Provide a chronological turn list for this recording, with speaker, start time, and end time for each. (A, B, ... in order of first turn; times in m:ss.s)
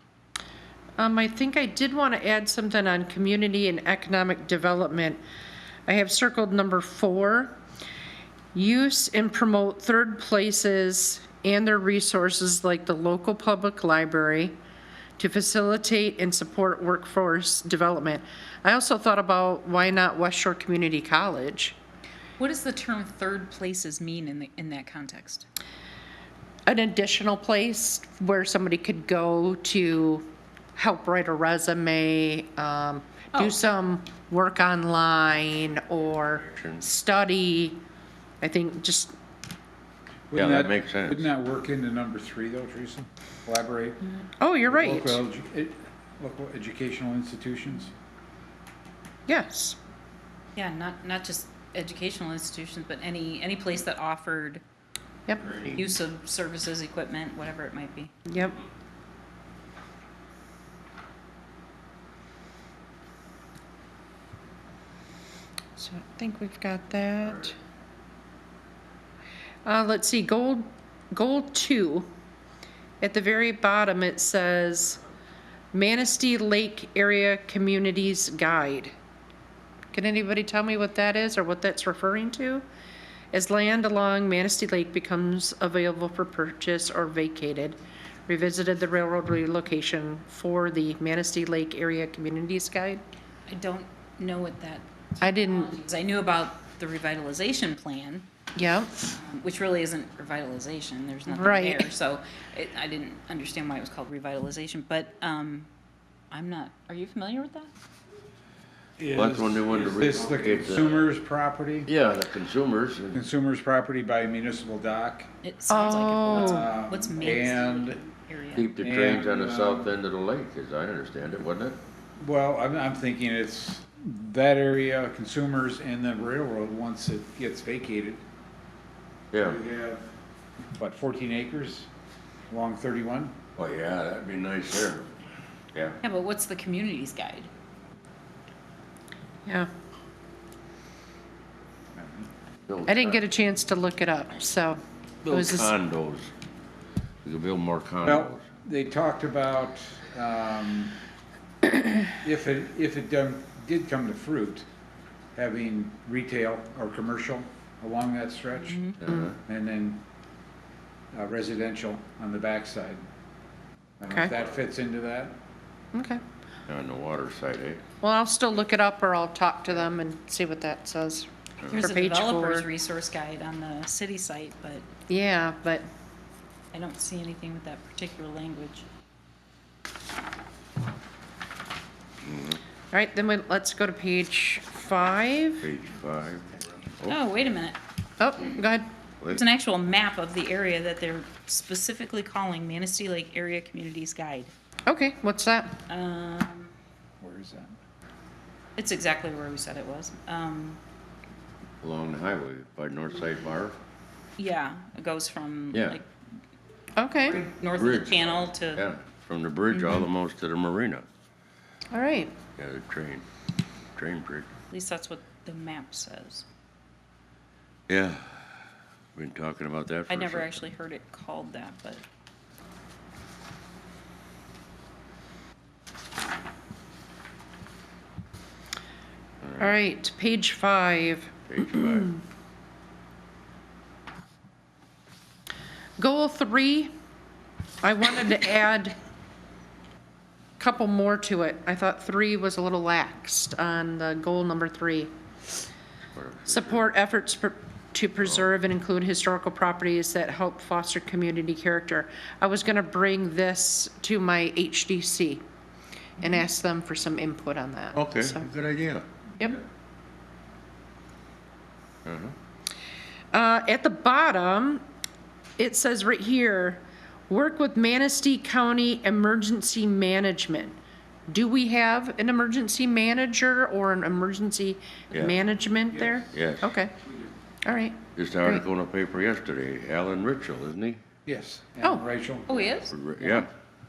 0:01.0-0:05.2 A
0:05.9-0:07.6 A
0:08.5-0:14.6 A
0:15.2-0:21.8 A
0:22.4-0:25.4 B
0:26.7-0:30.2 A
0:30.8-0:37.8 A
0:33.3-0:33.6 B
0:36.4-0:36.8 C
0:38.4-0:39.1 A
0:40.3-0:47.9 D
0:40.3-0:41.3 C
0:44.4-0:45.2 A
0:49.3-0:49.8 A
0:50.6-0:54.6 B
0:55.4-0:55.8 C
0:55.7-0:58.2 B
0:58.3-0:58.6 A
1:05.8-1:07.6 A
1:09.6-1:12.1 A
1:13.0-1:15.0 A
1:15.7-1:18.9 A
1:19.9-1:22.6 A
1:23.3-1:33.0 A
1:33.5-1:38.3 B
1:35.2-1:35.7 A
1:38.6-1:38.9 A
1:39.0-1:45.7 B
1:41.3-1:41.9 A
1:46.3-1:47.7 B
1:49.0-1:51.9 D
1:49.1-1:51.0 C
1:51.8-1:53.2 C
1:53.1-1:55.3 D
1:55.4-1:58.8 B
1:55.7-1:56.7 A
1:56.5-1:58.0 D
1:58.5-2:01.8 C
1:58.8-1:59.9 D
2:02.2-2:08.2 D
2:09.3-2:09.6 C
2:09.4-2:10.1 D
2:10.7-2:11.9 D
2:12.5-2:13.4 D
2:13.6-2:15.1 C
2:15.7-2:16.0 C
2:16.0-2:17.5 B
2:21.9-2:22.3 D
2:22.7-2:23.2 C
2:22.9-2:24.8 A
2:25.2-2:26.3 C
2:25.3-2:25.7 A
2:27.2-2:28.4 C
2:28.0-2:31.0 D
2:32.1-2:34.7 D
2:35.3-2:40.0 D
2:38.6-2:39.0 B
2:39.0-2:39.3 C
2:39.0-2:39.3 A
2:41.1-2:43.0 D
2:44.0-2:45.4 D
2:44.1-2:44.4 A
2:45.9-2:46.2 A
2:46.7-2:47.8 C
2:48.0-2:52.6 A
2:51.7-2:54.8 B
2:55.1-2:55.8 A
2:56.7-2:58.8 B
3:02.2-3:02.6 C
3:02.9-3:05.6 A
3:05.6-3:07.2 C
3:07.0-3:07.8 B
3:08.2-3:08.9 A
3:09.3-3:14.5 B
3:14.8-3:15.7 A
3:15.8-3:16.7 B
3:17.2-3:17.8 D
3:18.8-3:20.8 B
3:21.8-3:23.8 C
3:24.4-3:26.1 B
3:25.7-3:26.0 C
3:27.0-3:27.4 A
3:27.3-3:28.9 B
3:27.4-3:31.0 C
3:31.9-3:32.4 A
3:32.6-3:33.2 C
3:34.0-3:34.5 C
3:34.7-3:36.4 B
3:37.9-3:38.4 C
3:39.1-3:40.6 C
3:40.1-3:42.0 B
3:49.4-3:49.8 C
3:49.6-3:52.2 A
3:51.5-3:52.1 C
3:56.0-3:56.9 A
3:57.8-3:59.0 A
4:00.6-4:05.1 A
4:06.1-4:06.9 C
4:06.4-4:15.4 A
4:16.2-4:18.5 A
4:17.9-4:19.0 C
4:22.0-4:22.3 C
4:23.3-4:24.8 A
4:25.6-4:30.8 A
4:31.3-4:36.9 A
4:35.1-4:35.4 C
4:36.3-4:36.7 C
4:37.6-4:38.6 A
4:38.1-4:41.0 C
4:41.2-4:42.6 D
4:42.5-4:43.0 B
4:42.9-4:43.5 C